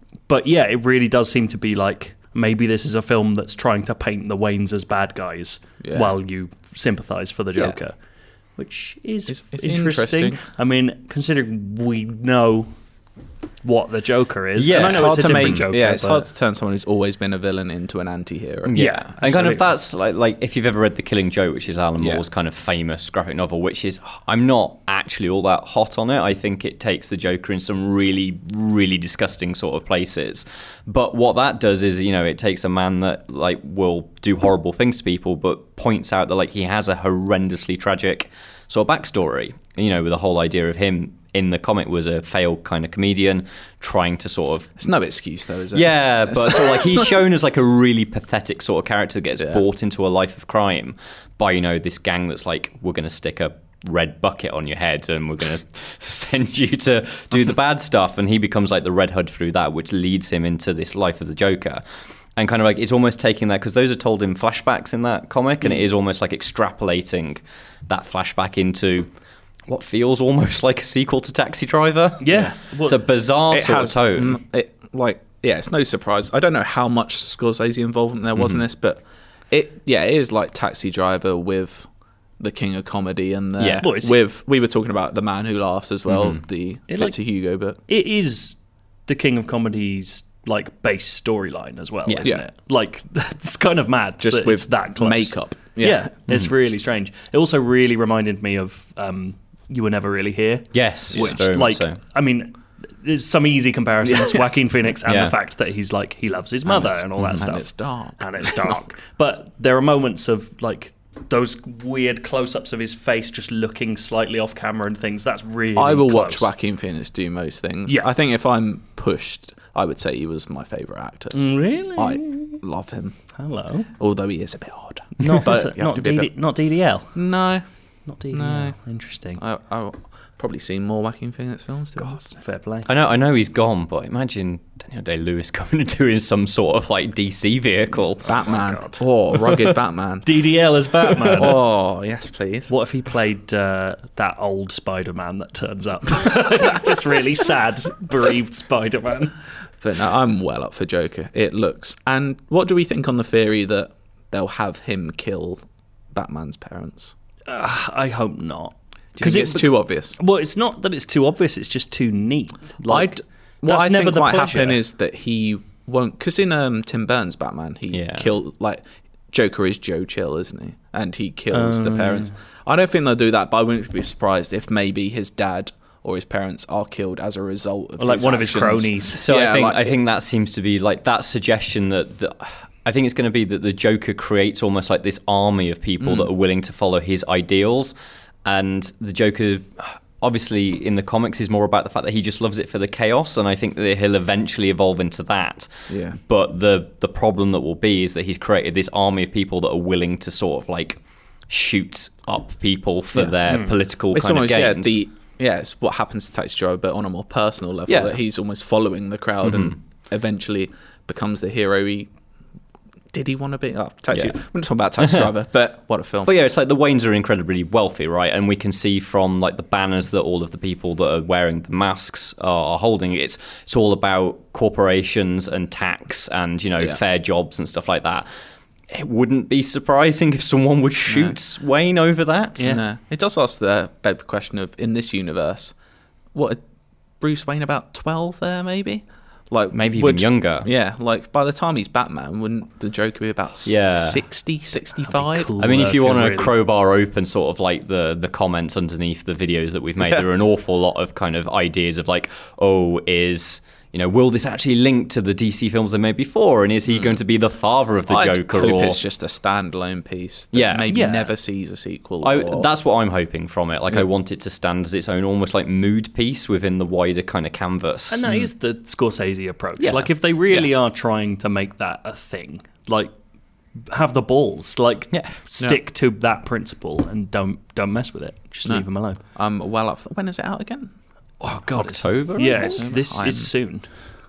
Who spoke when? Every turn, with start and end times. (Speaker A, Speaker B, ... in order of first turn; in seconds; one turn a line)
Speaker A: 0.3-7.9
Speaker B: 5.8-6.1
Speaker A: 8.6-12.7
Speaker B: 9.3-10.4
Speaker A: 13.6-16.3
Speaker C: 14.6-15.6
Speaker B: 14.7-18.7
Speaker C: 18.7-44.8
Speaker A: 18.7-19.7
Speaker B: 22.0-22.2
Speaker B: 44.8-47.1
Speaker C: 45.7-61.8
Speaker C: 62.4-69.1
Speaker C: 69.7-74.4
Speaker A: 72.2-73.0
Speaker B: 73.5-81.9
Speaker B: 82.4-87.8
Speaker C: 83.6-83.8
Speaker A: 83.8-84.2
Speaker C: 86.1-86.4
Speaker A: 86.9-87.2
Speaker A: 87.9-116.5
Speaker B: 94.2-96.1
Speaker C: 100.7-102.0
Speaker B: 101.1-101.4
Speaker B: 104.0-104.4
Speaker C: 105.0-105.3
Speaker B: 106.7-108.8
Speaker C: 107.2-107.4
Speaker B: 115.8-121.4
Speaker A: 121.3-122.6
Speaker B: 121.9-123.2
Speaker A: 123.3-123.9
Speaker B: 124.0-126.3
Speaker A: 125.2-127.2
Speaker B: 127.1-127.6
Speaker A: 128.1-129.4
Speaker B: 128.3-128.8
Speaker B: 129.4-132.3
Speaker A: 132.0-132.9
Speaker C: 132.9-138.2
Speaker B: 138.2-140.5
Speaker A: 138.4-139.0
Speaker A: 140.2-141.6
Speaker B: 141.3-142.7
Speaker A: 142.7-149.3
Speaker B: 149.8-157.1
Speaker A: 157.5-164.8
Speaker B: 159.2-160.2
Speaker B: 162.9-180.0
Speaker C: 167.9-168.3
Speaker A: 171.5-172.3
Speaker A: 178.0-179.2
Speaker C: 179.2-187.9
Speaker B: 186.0-186.3
Speaker C: 188.4-205.0
Speaker B: 195.9-196.2
Speaker A: 203.5-203.7
Speaker B: 204.1-212.1
Speaker C: 207.9-208.2
Speaker C: 209.4-209.8
Speaker B: 213.1-216.3
Speaker C: 215.0-215.3
Speaker C: 216.2-228.3
Speaker C: 228.9-232.7
Speaker B: 231.1-231.3
Speaker B: 232.6-235.7
Speaker B: 236.3-236.6
Speaker B: 237.2-245.5
Speaker C: 239.7-240.7
Speaker C: 243.7-244.2
Speaker A: 245.0-246.5
Speaker C: 245.6-259.0
Speaker B: 256.9-257.2
Speaker B: 258.1-262.7
Speaker C: 260.5-260.9
Speaker A: 260.9-261.3
Speaker C: 262.2-268.3
Speaker A: 268.1-273.1
Speaker C: 269.8-270.1
Speaker A: 273.9-279.2
Speaker C: 275.1-275.4
Speaker B: 278.6-280.9
Speaker A: 281.4-283.9
Speaker C: 281.7-282.9
Speaker B: 282.6-283.5